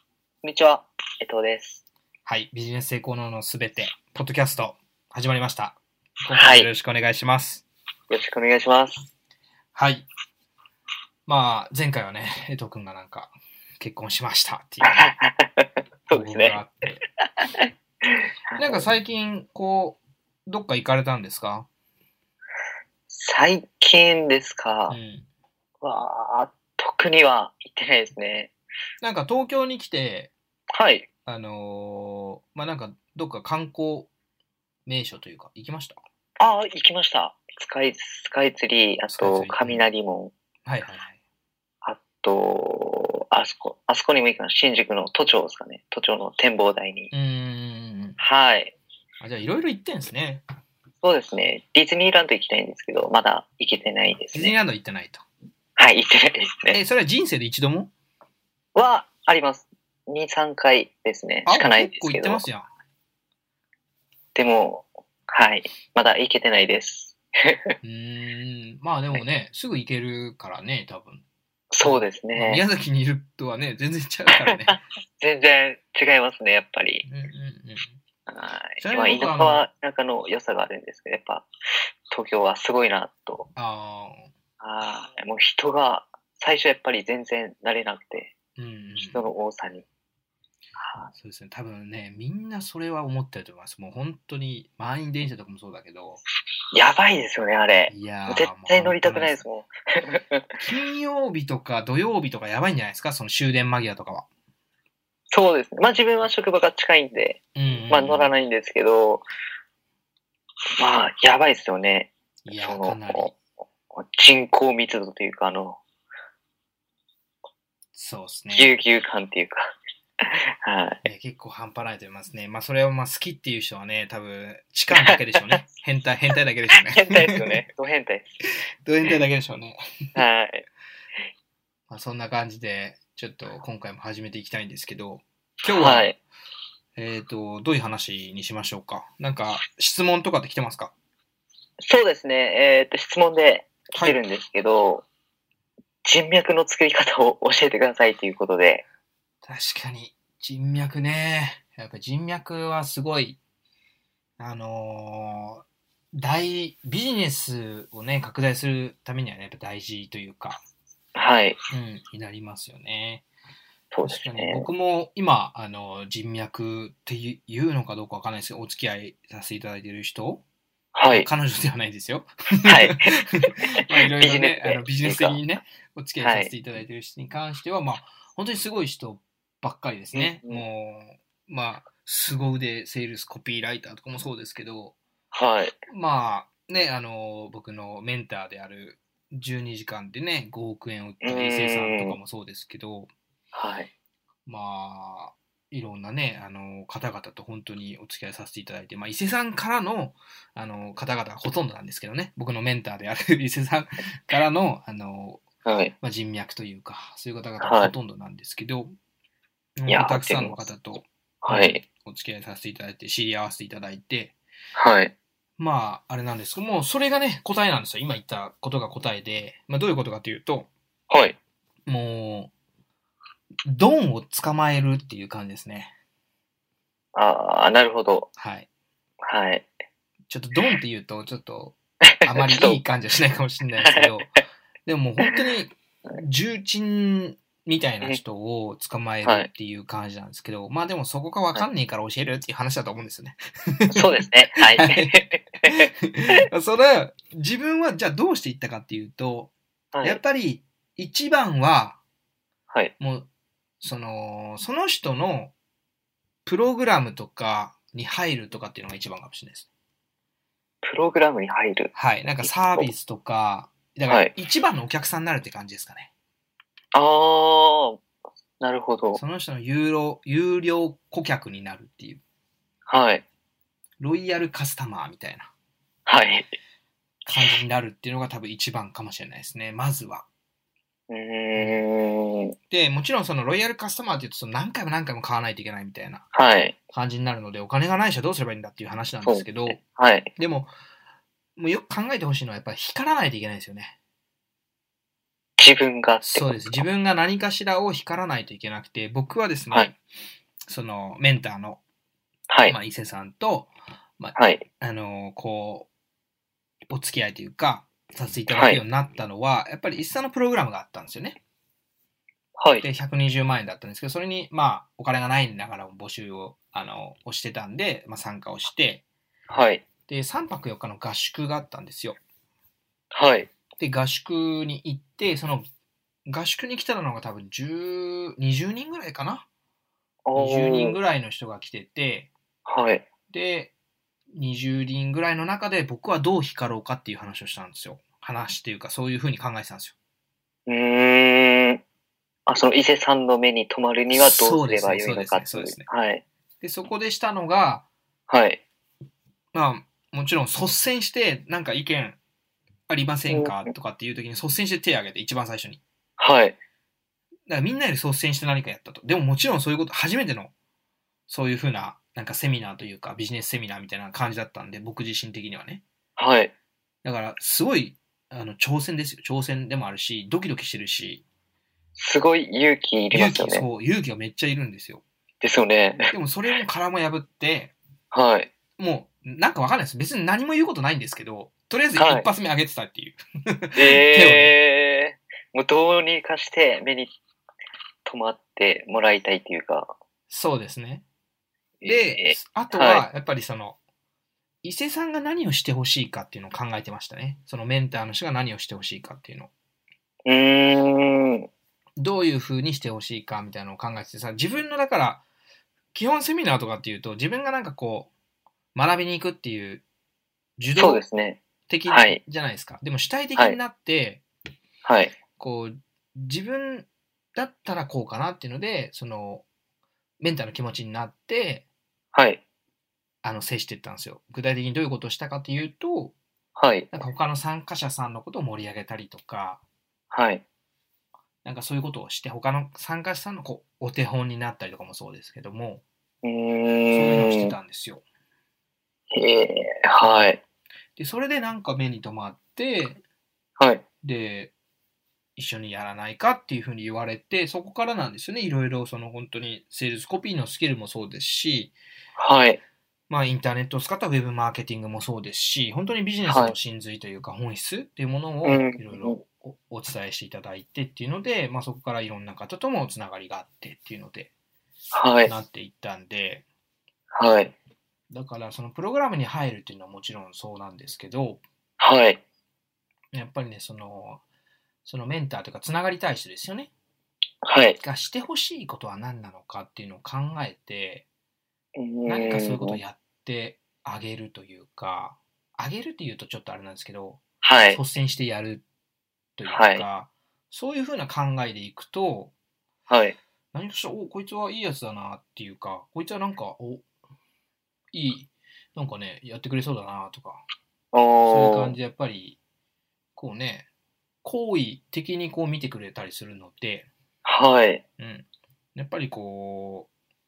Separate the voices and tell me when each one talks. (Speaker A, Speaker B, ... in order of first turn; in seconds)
Speaker A: 0.4-1.8, 6.3-6.7, 8.1-9.1, 14.8-16.6, 17.4-18.9, 23.1-25.0, 25.8-28.5, 30.8-31.1, 36.4-40.3, 41.8-47.1, 48.2-48.8, 51.0-54.5, 55.8-56.8, 58.8-62.5, 64.3-67.6, 71.7-72.6, 74.5-77.0, 78.3-81.5, 82.1-83.5, 84.6-88.3, 89.0-89.8, 90.8-91.1, 96.7-100.5, 105.3-109.2, 110.8-113.4, 113.9-115.8, 118.5-119.7, 120.6-121.0, 125.0-125.5, 126.8-128.3, 130.2-130.7, 135.7-136.2, 141.8-145.1, 146.1-148.9, 161.2-161.6, 163.9-164.7, 170.9-171.3, 172.7-173.1, 174.2-175.4, 176.2-176.5, 180.2-180.7, 185.3-185.8, 191.2-192.2, 193.5-193.9, 205.7-205.9, 207.6-207.9, 209.9-210.7, 211.4-211.8, 214.8-215.1, 221.1-221.4, 227.1-228.3, 229.2-229.7, 232.1-232.8, 233.8-234.1, 243.9-245.9, 249.9-250.2, 260.8-261.9, 262.4-262.9, 266.9-268.0, 268.6-269.2, 272.9-273.2, 276.1-276.5, 281.1-282.6, 286.3-286.8, 289.2-290.3, 295.6-296.8, 302.5-302.8, 304.4-304.6, 308.5-308.8, 312.6-312.9, 319.5-319.8, 323.1-323.5, 330.3-331.0, 332.7-333.1, 340.7-341.8, 342.5-346.2, 348.3-348.6, 353.3-353.7, 356.2-356.6, 366.2-366.5, 372.0-373.7, 375.4-376.1, 378.1-378.5, 382.0-382.3, 383.8-387.1, 388.1-389.9, 391.8-393.1, 400.3-401.5, 410.8-412.2, 414.9-415.1, 422.1-422.4, 426.6-426.9, 430.1-430.4, 436.2-437.5, 439.1-440.4, 452.2-452.6, 456.3-456.5, 458.4-459.2, 464.9-465.3, 467.1-467.6, 471.8-472.2, 477.4-477.8, 481.8-482.8, 487.4-487.8, 489.5-489.9, 492.9-493.2, 500.9-501.8, 507.2-507.8
Speaker B: 2.3-7.7, 9.8-10.1, 11.3-15.1, 16.1-17.0, 18.6-21.7, 24.9-25.3, 29.0-30.3, 31.3-34.1, 34.9-36.0, 39.1-39.9, 40.7-41.2, 47.1-48.2, 49.2-50.4, 54.3-55.2, 56.7-57.9, 61.5-62.7, 67.8-71.3, 71.8-74.8, 77.0-78.0, 78.8-79.7, 83.6-84.3, 88.6-89.3, 91.1-96.2, 97.9-99.4, 100.6-104.3, 107.5-108.3, 112.5-113.3, 117.9-118.7, 121.0-127.4, 128.8-129.8, 131.9-136.1, 137.0-140.9, 149.4-153.4, 154.4-160.6, 161.7-163.3, 164.1-170.4, 171.1-173.0, 173.8-185.0, 185.9-193.1, 194.5-205.4, 206.0-208.9, 209.8-214.4, 215.6-220.7, 221.9-222.5, 223.7-225.9, 228.4-228.7, 230.3-234.3, 234.9-245.1, 245.7-252.0, 253.0-253.3, 253.8-255.5, 256.5-259.7, 261.9-266.1, 269.1-272.2, 274.0-275.5, 277.3-280.3, 281.6-281.8, 282.7-286.2, 286.9-289.8, 290.4-290.7, 291.6-294.0, 296.2-300.0, 300.7-301.8, 302.7-305.9, 306.9-311.4, 312.8-319.1, 320.1-322.2, 323.8-325.7, 326.3-329.5, 330.4-332.3, 333.3-333.7, 334.3-340.0, 344.1-345.9, 346.6-347.9, 349.5-352.2, 352.9-355.8, 357.5-360.5, 361.3-365.8, 367.0-371.2, 373.1-375.0, 376.1-377.8, 378.8-384.6, 390.3-391.1, 391.9-393.8, 394.6-399.5, 402.0-405.2, 405.9-408.1, 408.8-409.8, 410.6-411.0, 411.7-414.2, 415.4-419.5, 420.2-421.7, 423.2-426.2, 426.9-429.6, 431.4-435.8, 436.9-438.0, 441.0-443.0, 444.0-444.5, 445.4-451.8, 453.1-464.3, 465.2-466.5, 468.1-471.4, 473.1-474.2, 474.9-476.7, 477.8-481.1, 482.1-488.6, 489.4-492.3, 493.5-496.9, 497.9-500.4, 501.3-502.4, 503.2-503.7, 504.2-506.9, 508.0-509.9